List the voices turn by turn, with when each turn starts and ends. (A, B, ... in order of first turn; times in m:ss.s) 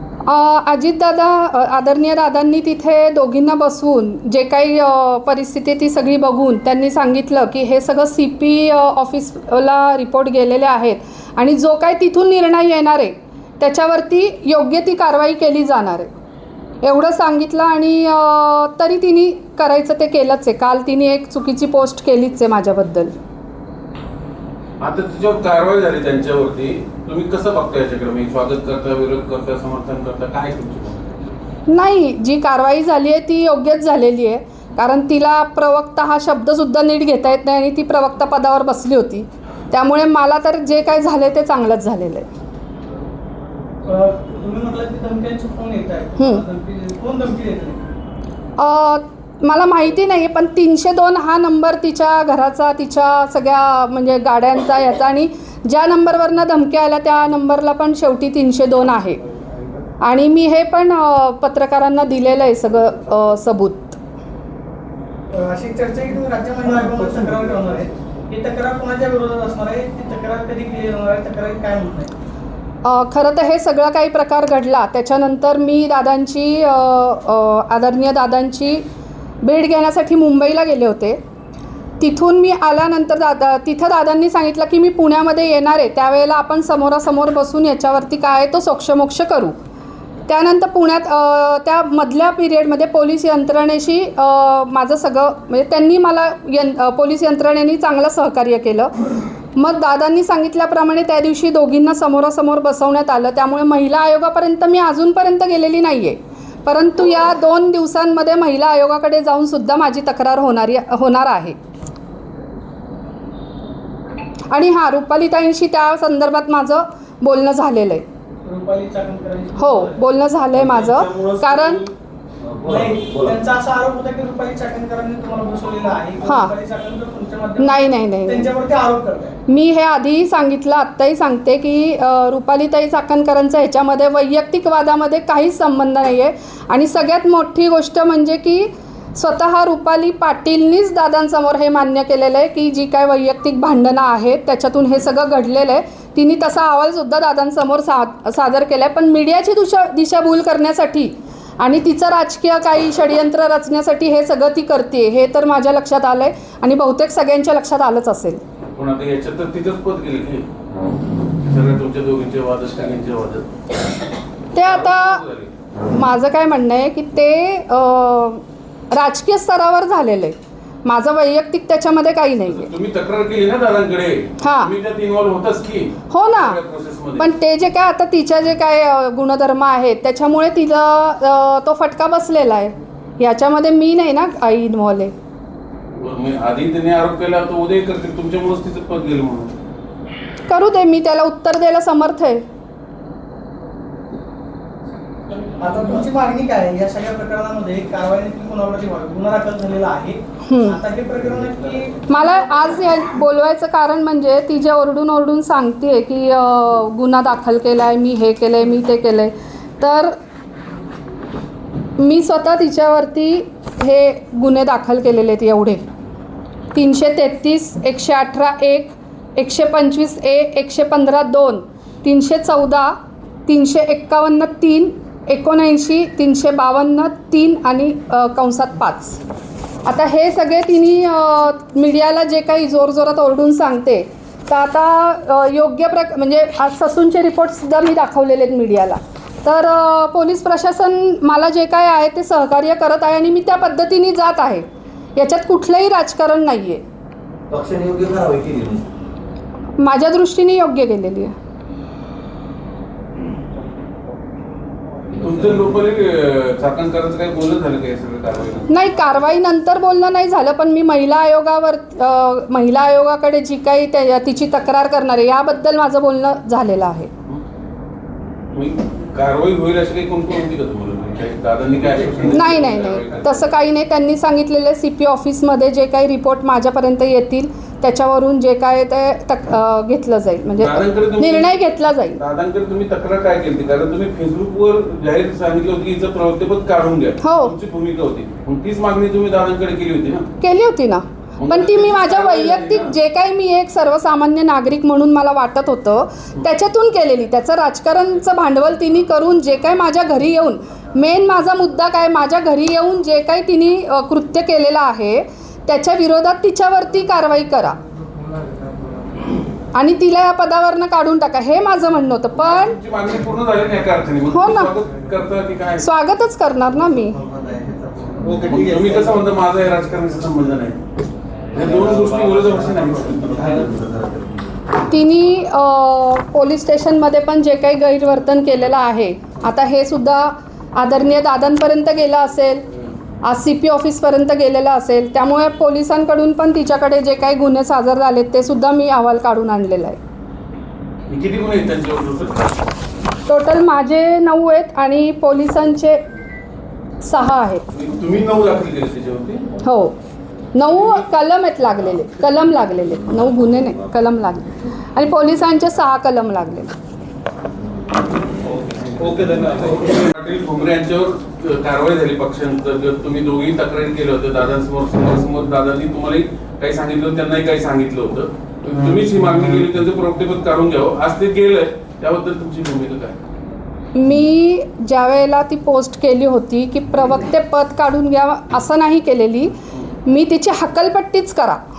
0:00.3-0:16.2 A
0:16.8-0:23.2 A
0:24.8-0:31.4 B
0:31.7-0:42.3 A
0:43.8-0:47.9 C
0:46.2-0:46.4 A
0:48.6-0:59.2 A
1:00.0-1:04.0 A
1:05.3-1:12.1 C
1:12.8-1:18.8 A
1:19.4-1:21.2 A
1:22.0-1:29.6 A
1:30.3-1:51.6 A
1:54.5-1:58.0 A
1:58.4-2:00.0 C
1:59.6-2:01.9 A
2:00.5-2:01.8 D
2:02.4-2:03.4 D
2:02.7-2:09.4 C
2:06.3-2:06.5 A
2:07.6-2:08.5 A
2:09.5-2:38.4 A
2:38.8-2:40.5 B
2:41.4-2:43.5 B
2:44.5-2:45.2 A
2:44.6-2:45.5 B
2:45.9-2:52.7 A
2:52.5-2:57.3 B
2:54.4-2:54.7 A
2:56.1-2:56.6 A
2:57.2-3:05.1 A
3:06.0-3:09.5 B
3:10.5-3:12.4 A
3:15.5-3:22.1 C
3:20.4-3:20.8 A
3:22.1-3:30.2 A
3:32.0-3:35.8 A
3:36.7-3:42.9 A
3:43.5-3:49.2 A
3:49.8-4:06.8 A
4:07.5-4:08.9 D
4:09.8-4:11.3 A
4:15.2-4:15.6 D
4:15.2-4:18.7 B
4:18.7-4:27.1 A
4:28.5-4:33.5 B
4:32.3-4:42.2 A
4:40.6-4:50.3 B
4:47.2-4:47.6 A
4:50.4-5:07.8 A
4:51.4-4:53.0 B
5:09.7-5:12.8 A
5:12.4-5:15.9 B
5:14.3-5:14.7 A
5:15.8-5:17.2 A
5:17.5-5:19.1 D
5:18.3-5:20.8 B
5:21.5-5:23.4 B
5:21.6-5:22.5 D
5:23.1-5:24.6 D
5:24.9-5:32.7 A
5:33.2-5:40.0 A
5:41.1-5:42.6 B
5:43.3-5:46.0 A
5:47.0-5:47.6 A
5:47.7-5:49.5 B
5:49.6-5:50.0 A
5:50.5-5:56.7 A
5:50.7-5:51.0 B
5:58.5-6:13.2 B
5:59.0-5:59.8 D
6:14.0-6:19.5 A
6:20.0-6:21.6 A